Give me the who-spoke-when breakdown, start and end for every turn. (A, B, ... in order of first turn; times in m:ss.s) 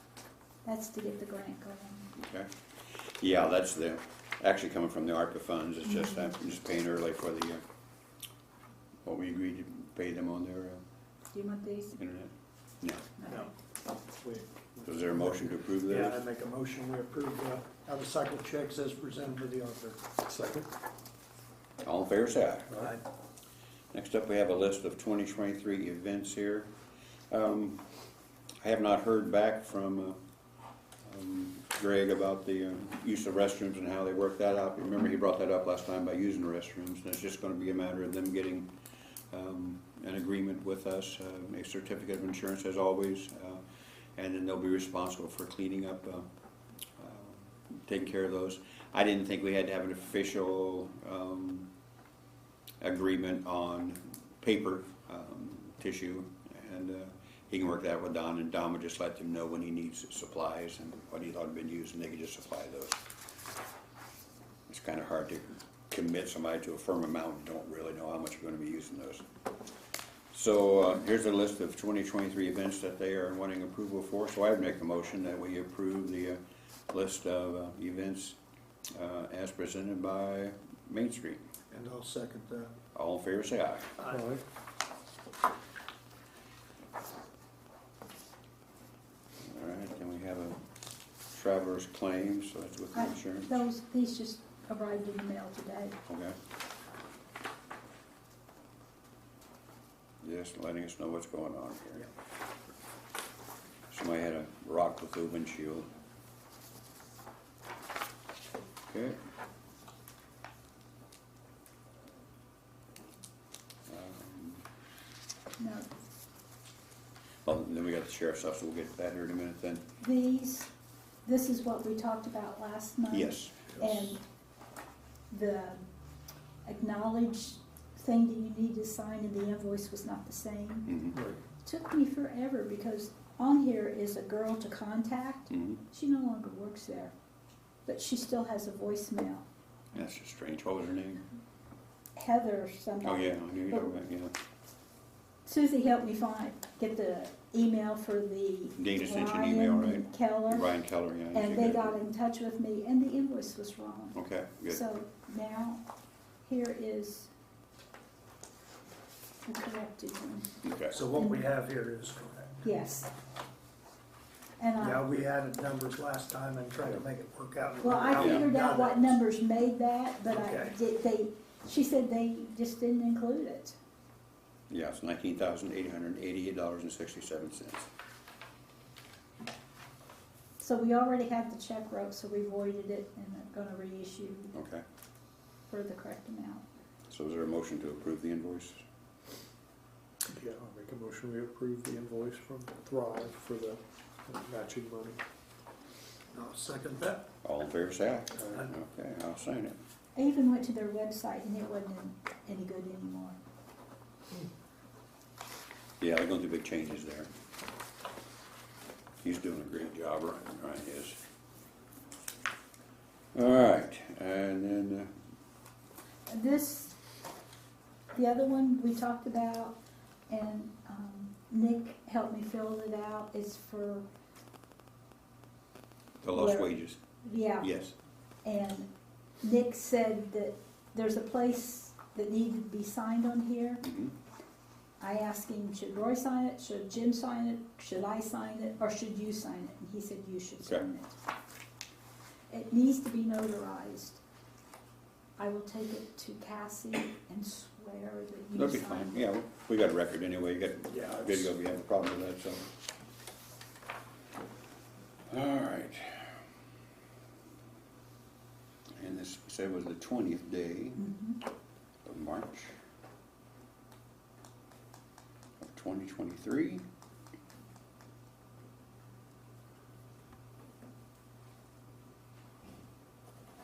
0:00.6-0:02.1 A
0:02.2-0:07.6 B
0:09.0-0:10.8 B
0:11.3-0:12.0 A
0:12.0-0:13.1 B
0:13.2-0:13.5 A
0:14.2-0:20.0 C
0:14.8-0:16.2 B
0:20.3-0:20.7 D
0:21.8-0:22.9 B
0:23.9-0:26.7 B
0:27.3-0:27.8 B
0:28.6-0:30.2 B
0:31.0-0:38.7 B
0:39.3-0:43.6 B
0:44.2-0:46.3 B
0:47.0-0:51.7 B
0:52.8-1:03.0 B
1:04.7-1:09.2 B
1:10.3-1:16.4 B
1:16.9-1:18.4 B
1:19.0-1:21.4 B
1:21.7-1:22.7 C
1:22.9-1:23.9 B
1:24.1-1:24.4 D
1:29.4-1:30.6 B
1:31.3-1:33.6 B
1:32.9-1:36.0 A
1:36.1-1:36.4 B
1:40.2-1:42.1 B
1:43.9-1:45.9 B
1:48.9-1:49.2 B
1:53.9-1:54.6 B
1:55.6-1:55.9 A
1:57.4-1:59.8 B
2:00.0-2:00.7 A
2:01.2-2:04.2 A
2:03.1-2:03.8 B
2:05.3-2:05.8 A
2:06.6-2:11.0 A
2:10.9-2:11.2 B
2:11.1-2:11.4 D
2:11.6-2:17.1 A
2:15.5-2:15.8 B
2:17.9-2:19.4 A
2:19.9-2:21.2 B
2:22.2-2:23.9 A
2:23.0-2:24.3 B
2:25.5-2:30.7 A
2:28.8-2:32.0 B
2:31.3-2:34.2 A
2:34.1-2:34.8 B
2:34.7-2:35.8 A
2:36.4-2:37.3 A
2:39.5-2:40.5 A
2:40.6-2:41.0 B
2:40.9-2:42.7 C
2:42.6-2:43.1 A
2:44.6-2:45.0 A
2:44.8-2:49.2 C
2:47.8-2:53.8 A
2:48.1-2:48.5 B
2:50.3-2:50.8 C
2:54.7-2:57.9 B
3:00.6-3:04.5 A
3:04.5-3:04.8 B
3:05.7-3:06.6 A
3:07.1-3:08.8 B
3:10.2-3:15.2 D
3:16.3-3:17.3 C
3:17.4-3:19.8 B
3:20.2-3:23.4 A
3:26.0-3:27.3 B
3:29.2-3:31.2 B
3:33.4-3:35.1 B
3:36.3-3:37.0 A
3:38.1-3:39.8 A
3:40.3-3:44.1 A
3:46.2-3:47.0 B
3:46.3-3:46.7 A
3:47.2-3:47.7 A
3:47.6-3:47.9 B
3:48.4-3:48.9 A
3:49.4-3:53.8 A
3:53.8-3:54.1 B
3:55.0-4:01.2 A
4:02.5-4:04.2 A
4:05.4-4:09.2 A
4:08.6-4:12.6 B
4:11.0-4:11.3 C
4:15.3-4:16.3 B
4:19.0-4:21.1 B
4:21.0-4:21.4 A
4:22.0-4:22.7 B
4:25.6-4:26.8 B